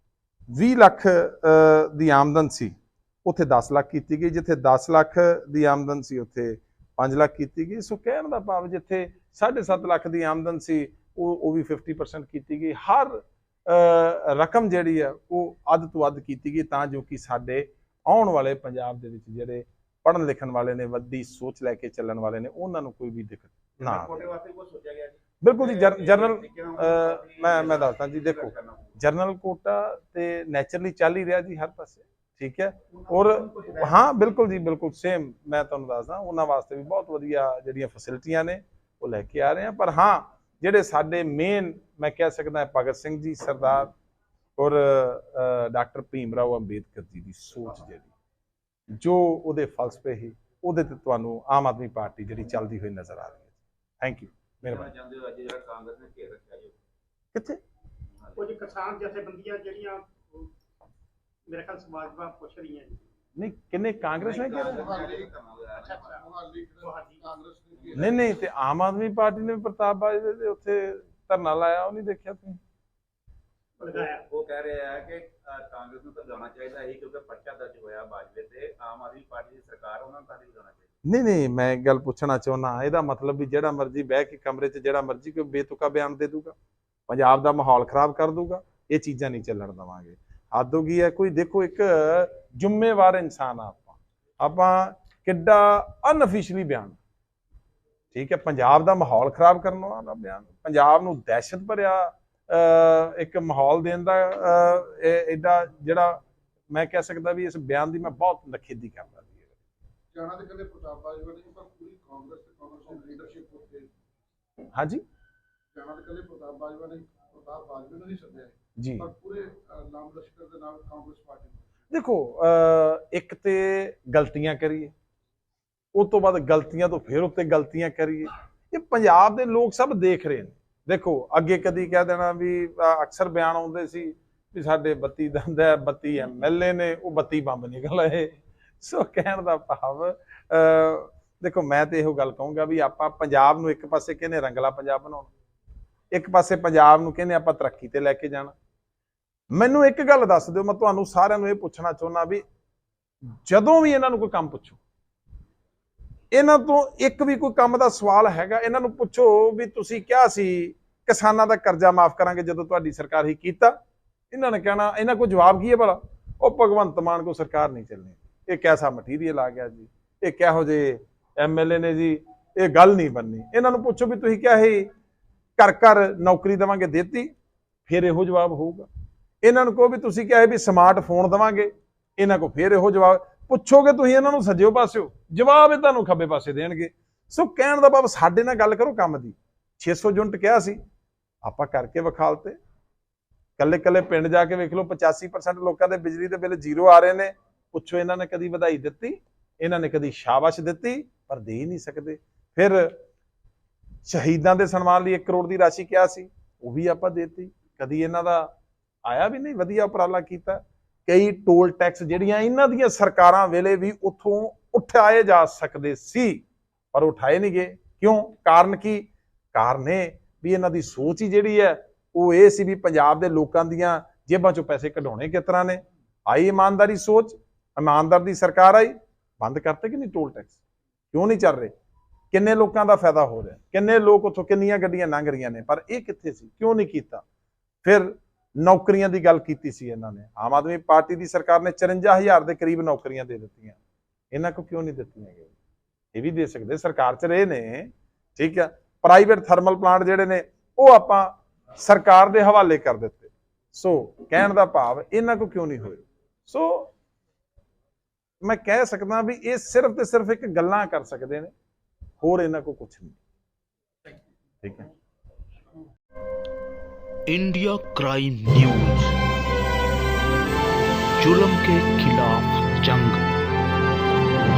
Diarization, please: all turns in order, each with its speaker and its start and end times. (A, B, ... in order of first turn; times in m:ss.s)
0:00.5-0:24.3 A
0:23.8-0:28.9 B
0:25.4-0:43.9 A
0:33.0-0:34.3 B
0:44.6-0:48.1 A
0:48.9-0:54.9 A
0:54.6-0:56.8 B
0:57.3-0:57.6 A
0:58.4-1:00.5 C
1:01.5-1:03.0 C
1:03.4-1:04.9 A
1:04.2-1:06.0 B
1:04.7-1:05.3 D
1:05.7-1:06.2 C
1:06.0-1:08.2 D
1:06.9-1:07.2 C
1:07.8-1:08.1 B
1:08.0-1:12.6 A
1:13.8-1:20.9 B
1:13.8-1:14.2 C
1:21.0-1:26.6 A
1:27.1-1:37.0 A
1:38.1-1:49.6 A
1:50.1-1:53.9 D
1:54.7-1:55.0 A
1:55.7-2:01.7 D
1:58.8-1:59.1 A
2:01.9-2:04.9 A
2:05.9-2:25.3 A
2:26.1-2:28.6 A
2:29.5-2:32.4 A
2:33.4-2:34.8 A
2:36.3-2:43.8 A
2:44.3-2:54.9 A
2:55.6-2:57.3 A
2:57.9-2:58.9 A
2:59.4-3:10.8 A
3:11.4-3:12.6 A
3:13.6-3:23.0 A
3:24.1-3:28.5 A
3:29.0-3:50.6 A
3:51.1-3:51.7 A
3:52.3-3:57.2 A
3:57.8-4:03.8 A
4:04.3-4:05.5 A
4:06.1-4:16.9 A
4:18.4-4:21.5 A
4:22.2-4:23.2 A
4:24.6-4:24.9 A
4:27.3-4:29.2 E
4:31.2-4:33.2 E